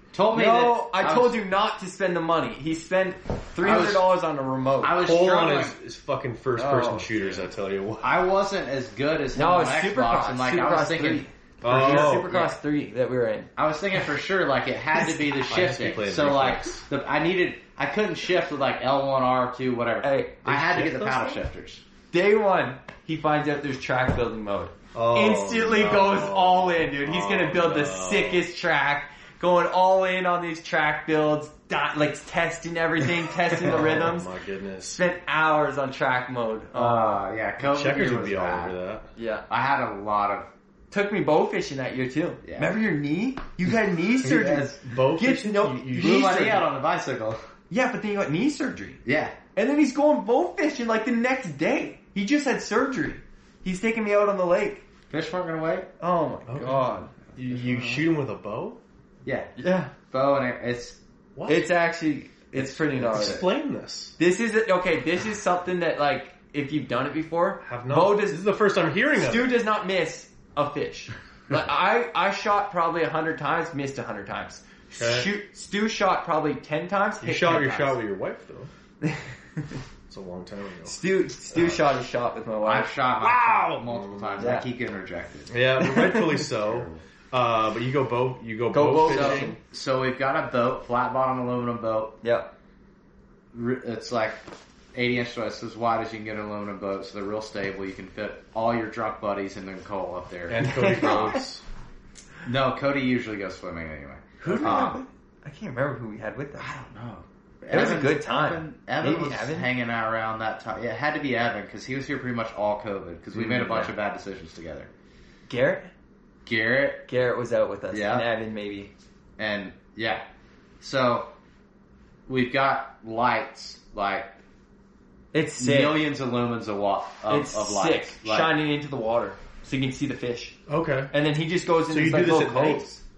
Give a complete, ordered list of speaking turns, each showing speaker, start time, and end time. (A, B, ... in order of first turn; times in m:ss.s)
0:00.1-0:01.4 A
0:00.3-0:05.1 B
0:03.6-0:04.1 A
0:04.8-0:05.8 A
0:05.0-0:08.1 C
0:06.6-0:07.0 B
0:06.6-0:07.4 A
0:08.0-0:12.6 A
0:09.4-0:13.5 B
0:11.6-0:12.3 C
0:13.6-0:21.8 A
0:15.5-0:16.8 C
0:20.0-0:20.3 B
0:20.4-0:21.4 C
0:22.1-0:34.3 B
0:24.9-0:28.4 C
0:33.6-0:35.0 C
0:34.9-0:37.2 B
0:36.7-0:38.8 A
0:37.6-0:39.1 C
0:39.2-0:39.4 B
0:39.5-0:40.5 A
0:40.9-0:46.6 B
0:42.4-0:42.8 A
0:44.2-0:44.8 A
0:44.8-0:46.6 C
0:45.9-0:47.4 A
0:47.7-0:49.0 B
0:49.0-0:49.4 A
0:49.6-0:54.8 B
0:55.1-0:55.9 A
0:56.0-0:58.0 B
0:56.5-0:58.8 C
0:59.2-0:59.5 A
0:59.6-0:59.9 B
1:00.1-1:01.0 A
1:01.4-1:01.7 C
1:01.5-1:03.4 B
1:02.5-1:03.4 A
1:03.1-1:04.1 C
1:04.2-1:08.4 B
1:07.6-1:09.5 C
1:09.1-1:18.0 B
1:15.0-1:15.3 C
1:17.2-1:18.7 C
1:19.0-1:19.8 B
1:20.1-1:21.8 C
1:20.8-1:22.9 B
1:22.6-1:25.6 A
1:23.2-1:24.6 C
1:24.4-1:24.7 B
1:25.5-1:29.6 C
1:25.8-1:26.5 B
1:26.6-1:27.0 A
1:28.7-1:29.6 B
1:29.1-1:32.2 A
1:32.2-1:32.5 B
1:33.5-1:34.4 A
1:34.9-1:41.4 A
1:40.5-1:41.6 C
1:40.7-1:41.3 B
1:42.4-1:45.0 A
1:44.4-1:44.9 C
1:44.4-1:46.7 B
1:46.6-1:54.9 A
1:47.7-1:49.7 B
1:53.4-1:53.9 C
1:55.5-1:55.9 B
1:56.4-1:57.1 A
1:57.1-1:58.9 B
1:57.9-1:58.3 A
1:59.4-2:00.2 A
2:00.8-2:01.3 A
2:02.3-2:04.3 A
2:05.3-2:06.0 B
2:05.6-2:08.5 A
2:07.3-2:10.6 B
2:10.7-2:11.1 C
2:11.1-2:13.0 B
2:11.9-2:12.9 C